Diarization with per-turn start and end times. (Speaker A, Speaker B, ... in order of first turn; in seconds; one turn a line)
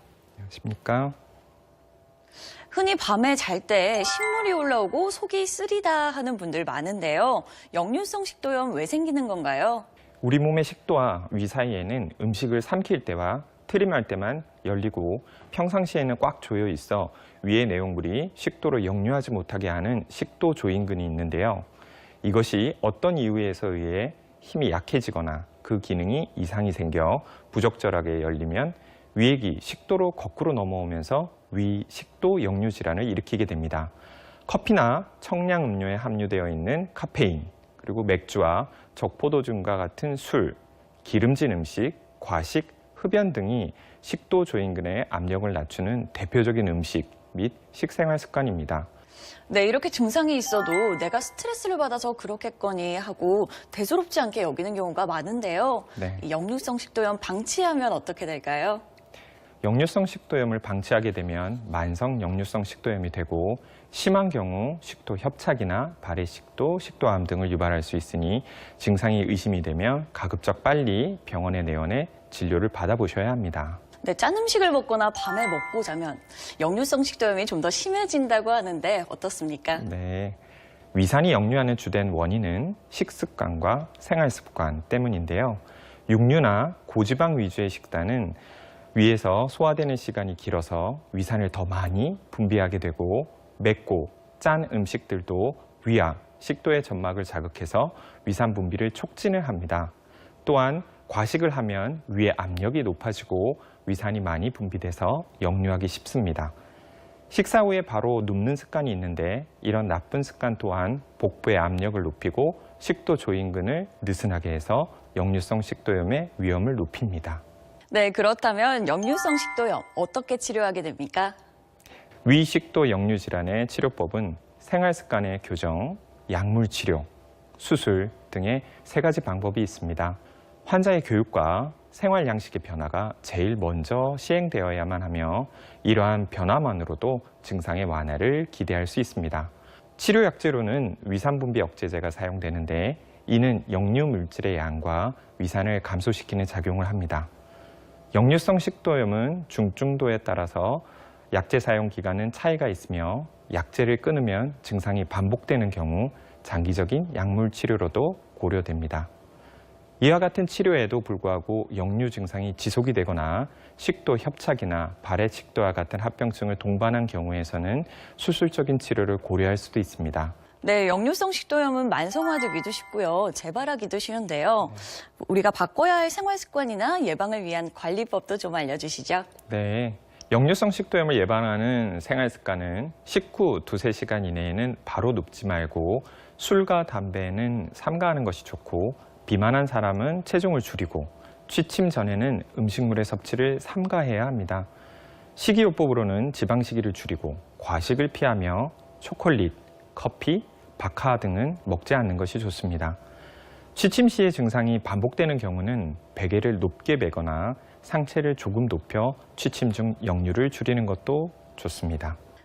Speaker A: 0.4-1.1
Speaker B: 2.7-9.8
Speaker A: 10.2-21.7
Speaker A: 22.2-33.9
Speaker A: 34.5-48.9
Speaker B: 49.5-58.8
Speaker A: 56.0-56.2
Speaker A: 59.6-73.8
Speaker B: 74.0-79.8
Speaker A: 79.8-80.4
Speaker A: 80.9-88.4
Speaker A: 88.9-99.9
Speaker A: 100.4-106.5
Speaker A: 107.3-117.4
Speaker B: 117.9-121.3
Speaker A: 122.2-127.1
Speaker A: 127.6-147.3
Speaker A: 148.1-159.1
Speaker A: 160.0-170.3
Speaker B: 170.6-179.3
Speaker A: 179.5-194.7
Speaker A: 195.3-203.0
Speaker A: 203.7-212.2